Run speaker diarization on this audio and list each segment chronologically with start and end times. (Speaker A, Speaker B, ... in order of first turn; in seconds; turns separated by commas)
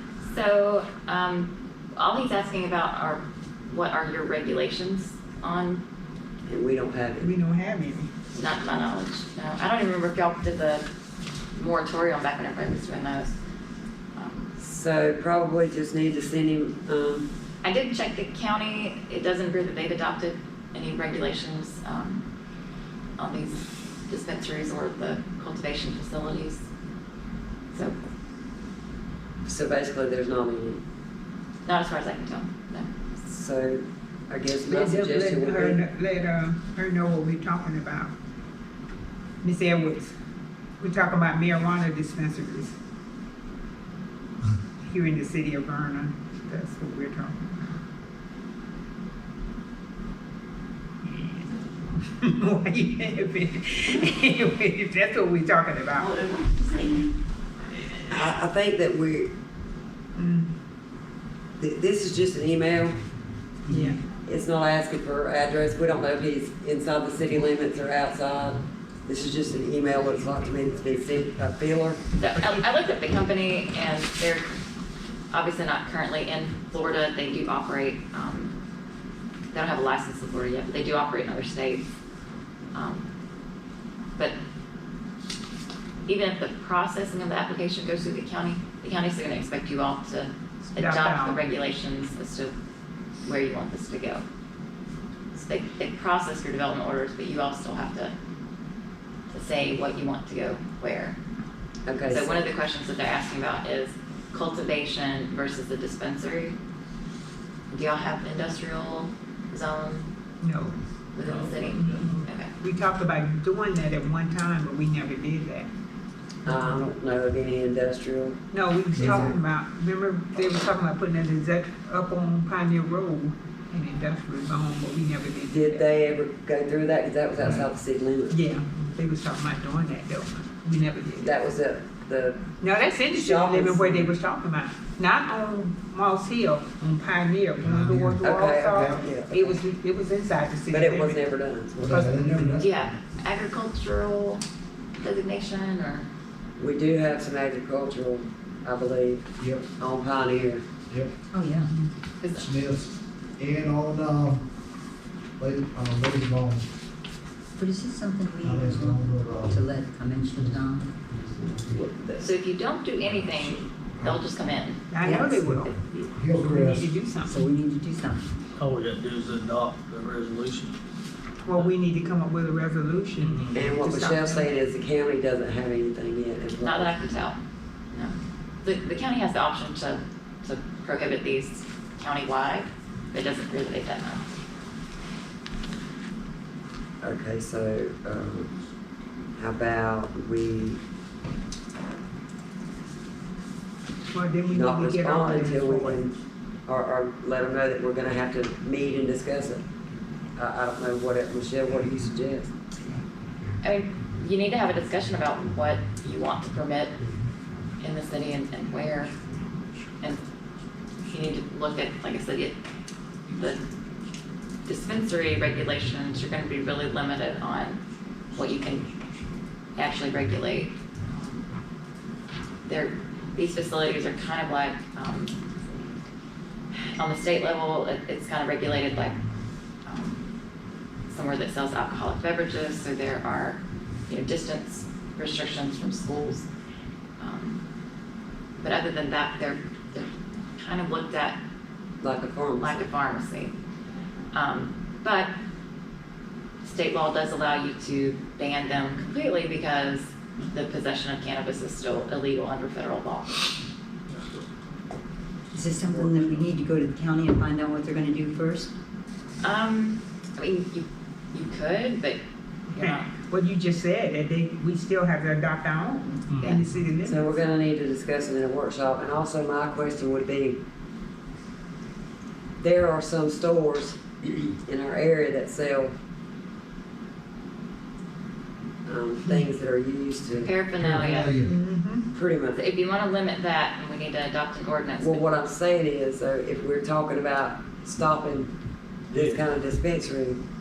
Speaker A: 0.2-5.8, Speaker B: 6.5-7.3, Speaker C: 7.2-8.1, Speaker A: 8.3-10.8, Speaker A: 11.5-13.3, Speaker A: 14.1-14.5, Speaker B: 14.6-17.3, Speaker A: 17.6-22.2, Speaker A: 23.2-26.6, Speaker B: 29.4-30.8, Speaker A: 31.6-32.9, Speaker B: 33.2-35.8, Speaker C: 34.7-38.1, Speaker C: 39.4-40.1, Speaker C: 40.8-42.7, Speaker C: 44.8-47.4, Speaker C: 51.1-51.4, Speaker C: 52.2-56.2, Speaker B: 58.1-59.3, Speaker C: 60.1-60.5, Speaker B: 61.6-63.0, Speaker C: 63.7-64.0, Speaker B: 64.2-72.0, Speaker A: 72.2-74.5, Speaker C: 72.3-72.6, Speaker A: 75.3-78.5, Speaker A: 79.5-81.8, Speaker A: 82.7-83.1, Speaker A: 86.1-92.5, Speaker C: 90.8-91.4, Speaker A: 93.2-94.2, Speaker A: 95.3-98.1, Speaker A: 99.3-101.2, Speaker B: 101.8-102.3, Speaker A: 102.1-106.5, Speaker A: 107.7-110.1, Speaker C: 110.4-110.8, Speaker A: 111.1-112.5, Speaker D: 111.2-112.2, Speaker C: 111.8-115.7, Speaker B: 116.4-118.4, Speaker C: 116.5-116.9, Speaker C: 118.5-125.9, Speaker B: 118.9-119.3, Speaker E: 118.9-119.3, Speaker B: 125.5-128.4, Speaker C: 128.3-131.3, Speaker B: 131.2-132.4, Speaker C: 132.6-141.2, Speaker B: 133.1-134.1, Speaker E: 137.6-138.2, Speaker B: 138.2-139.6, Speaker E: 138.7-139.0, Speaker B: 140.7-142.1, Speaker E: 141.8-142.9, Speaker C: 141.9-142.7, Speaker A: 142.6-144.4, Speaker A: 145.0-146.1, Speaker B: 146.6-150.6, Speaker E: 149.4-149.7, Speaker F: 151.3-151.9, Speaker A: 152.2-152.5, Speaker E: 152.3-154.5, Speaker E: 155.4-156.7, Speaker F: 157.6-160.9, Speaker E: 158.4-159.6, Speaker E: 160.3-161.8, Speaker B: 161.7-162.3, Speaker A: 162.2-164.9, Speaker C: 164.9-167.4, Speaker F: 165.0-165.4, Speaker E: 165.4-166.9, Speaker F: 167.2-168.3, Speaker D: 168.6-170.8, Speaker C: 171.4-174.5, Speaker D: 173.2-173.7, Speaker B: 173.5-177.0, Speaker A: 176.6-177.4, Speaker A: 177.9-184.2, Speaker B: 187.0-188.5, Speaker B: 189.4-190.8, Speaker C: 194.1-196.0, Speaker B: 194.5-196.1, Speaker B: 196.7-199.6, Speaker B: 200.3-202.5, Speaker A: 203.6-206.9, Speaker A: 207.8-209.1, Speaker A: 211.1-212.5, Speaker A: 213.3-213.6, Speaker A: 214.6-217.8, Speaker A: 218.3-218.8, Speaker A: 219.7-221.4, Speaker A: 222.6-225.4, Speaker A: 226.9-229.2, Speaker A: 229.8-230.2, Speaker A: 231.1-236.5, Speaker A: 237.2-237.6, Speaker A: 238.6-241.4, Speaker B: 242.0-242.9, Speaker A: 242.6-243.5, Speaker A: 244.3-245.3, Speaker A: 246.6-253.4, Speaker D: 254.1-254.4, Speaker F: 255.5-258.7, Speaker A: 259.4-262.2, Speaker A: 262.7-263.1, Speaker C: 262.8-267.3, Speaker D: 266.3-266.6, Speaker B: 267.0-270.6, Speaker B: 272.6-275.9, Speaker B: 278.9-280.5, Speaker A: 280.4-281.4, Speaker E: 280.8-281.5, Speaker C: 281.4-282.1, Speaker B: 282.1-282.6, Speaker A: 282.5-285.3, Speaker B: 285.0-288.5, Speaker B: 289.1-290.4, Speaker D: 289.1-289.4